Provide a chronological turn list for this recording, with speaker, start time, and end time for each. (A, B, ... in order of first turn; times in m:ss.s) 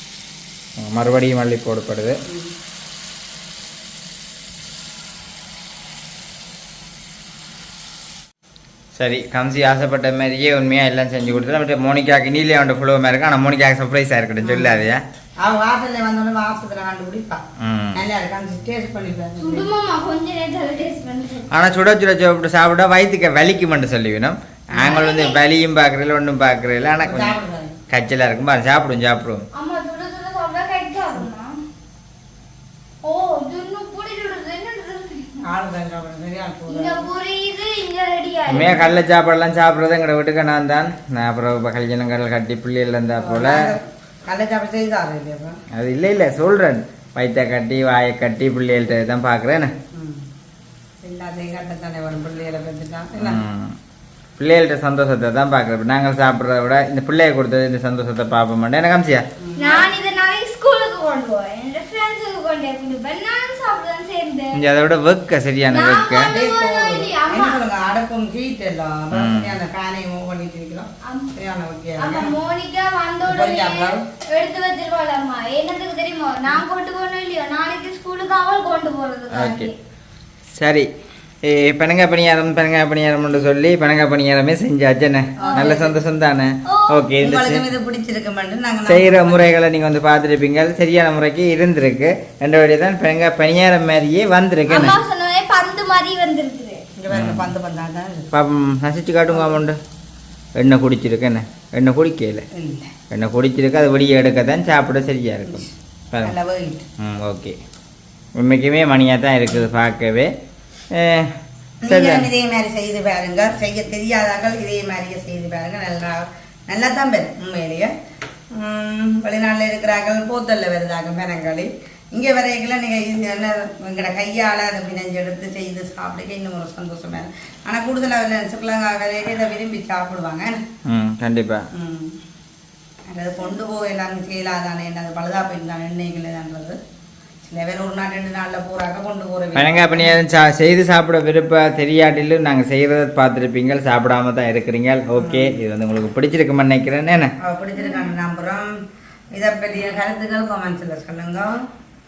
0:00.8-0:02.2 A
0:02.3-0:02.5 B
0:08.9-0:15.0 A
0:14.4-0:14.8 B
0:15.4-0:17.4 B
0:17.6-0:18.0 A
0:17.9-0:19.6 B
0:19.4-0:21.5 C
0:21.5-0:27.4 A
0:24.7-0:25.2 B
0:24.8-0:25.4 C
0:27.0-0:27.8 B
0:27.9-0:29.4 A
0:29.5-0:31.6 C
0:33.0-0:35.3 C
0:35.4-0:37.0 B
0:36.7-0:38.9 C
0:38.5-0:43.6 A
0:43.2-0:45.6 B
0:45.7-0:49.7 A
0:49.9-0:50.2 B
0:51.0-0:53.4 B
0:53.2-0:53.8 A
0:54.4-0:59.2 A
0:59.4-0:59.9 B
0:59.6-1:04.6 C
1:04.5-1:06.3 A
1:05.7-1:07.6 C
1:06.3-1:12.3 B
1:09.1-1:09.5 A
1:11.0-1:11.3 C
1:12.0-1:19.7 C
1:13.2-1:14.0 B
1:19.3-1:19.7 A
1:20.5-1:20.9 A
1:21.4-1:27.6 A
1:25.4-1:25.8 C
1:25.4-1:26.0 B
1:26.6-1:27.0 C
1:27.2-1:29.5 B
1:28.8-1:35.0 A
1:34.7-1:36.8 C
1:37.0-1:38.3 B
1:37.1-1:37.5 A
1:38.3-1:39.8 A
1:39.3-1:39.6 B
1:40.6-1:42.4 A
1:42.5-1:42.9 B
1:43.1-1:46.3 A
1:46.2-1:46.8 B
1:47.0-1:47.6 A
1:48.4-1:50.3 A
1:50.9-1:51.3 A
1:51.8-1:57.9 B
1:51.9-1:52.3 A
1:58.5-2:10.6 B
2:10.8-2:11.6 A
2:11.7-2:12.2 B
2:13.1-2:16.8 B
2:17.4-2:20.2 B
2:19.5-2:27.3 A
2:25.2-2:25.6 B
2:27.4-2:28.7 B
2:27.8-2:28.1 C
2:29.3-2:31.6 B